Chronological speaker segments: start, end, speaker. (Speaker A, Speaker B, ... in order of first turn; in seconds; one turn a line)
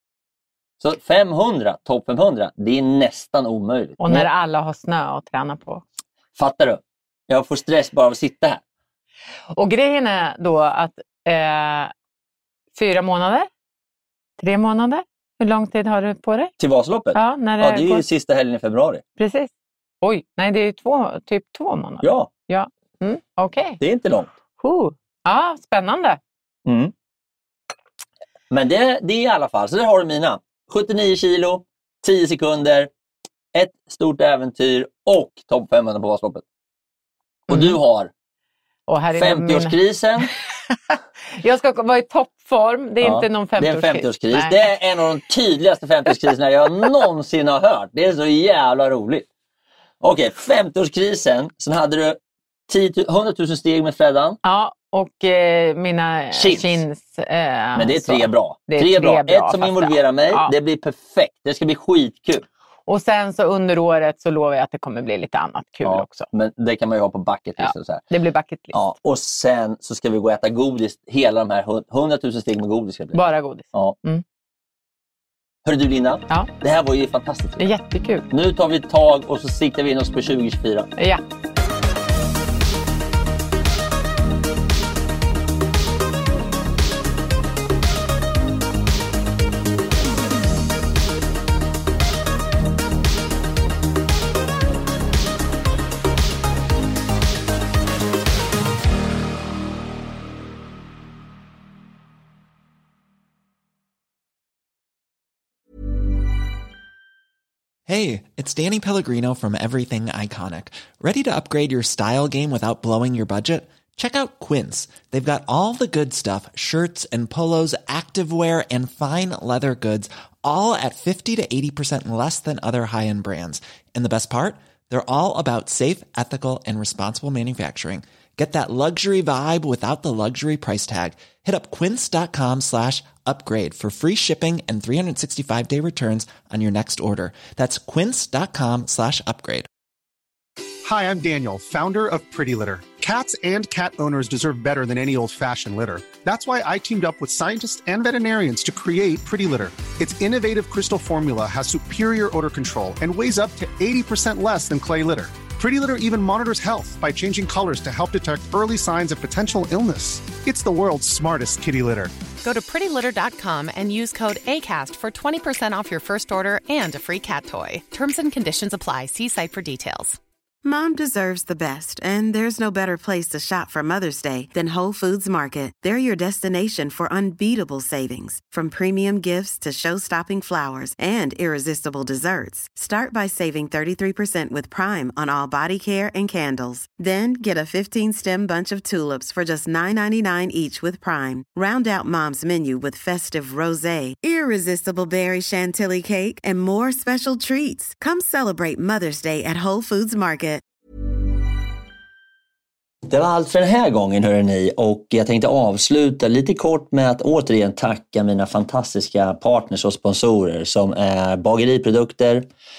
Speaker A: 0.8-4.3
Speaker B: 4.0-5.8
Speaker A: 6.3-8.6
Speaker B: 9.5-11.9
Speaker B: 12.7-13.5
Speaker B: 14.4-16.5
Speaker A: 16.6-19.0
Speaker B: 17.1-18.0
Speaker B: 19.2-19.5
Speaker B: 20.0-23.8
Speaker A: 22.0-22.3
Speaker A: 23.8-24.3
Speaker B: 24.6-26.2
Speaker A: 26.6-26.9
Speaker A: 28.5-32.9
Speaker A: 33.5-36.4
Speaker B: 37.5-37.8
Speaker A: 37.5-38.1
Speaker B: 38.9-44.6
Speaker A: 39.1-40.3
Speaker A: 43.0-49.3
Speaker A: 50.0-54.4
Speaker B: 54.4-60.5
Speaker A: 56.3-56.8
Speaker A: 57.8-62.4
Speaker B: 62.9-66.3
Speaker A: 65.8-68.0
Speaker B: 67.6-68.9
Speaker A: 68.7-73.2
Speaker B: 73.1-74.2
Speaker A: 75.6-77.7
Speaker B: 77.6-78.3
Speaker A: 78.3-80.9
Speaker B: 81.0-81.2
Speaker C: 107.8-139.7
Speaker D: 140.8-162.1
Speaker E: 162.4-170.2
Speaker F: 170.6-200.6
Speaker A: 203.1-212.5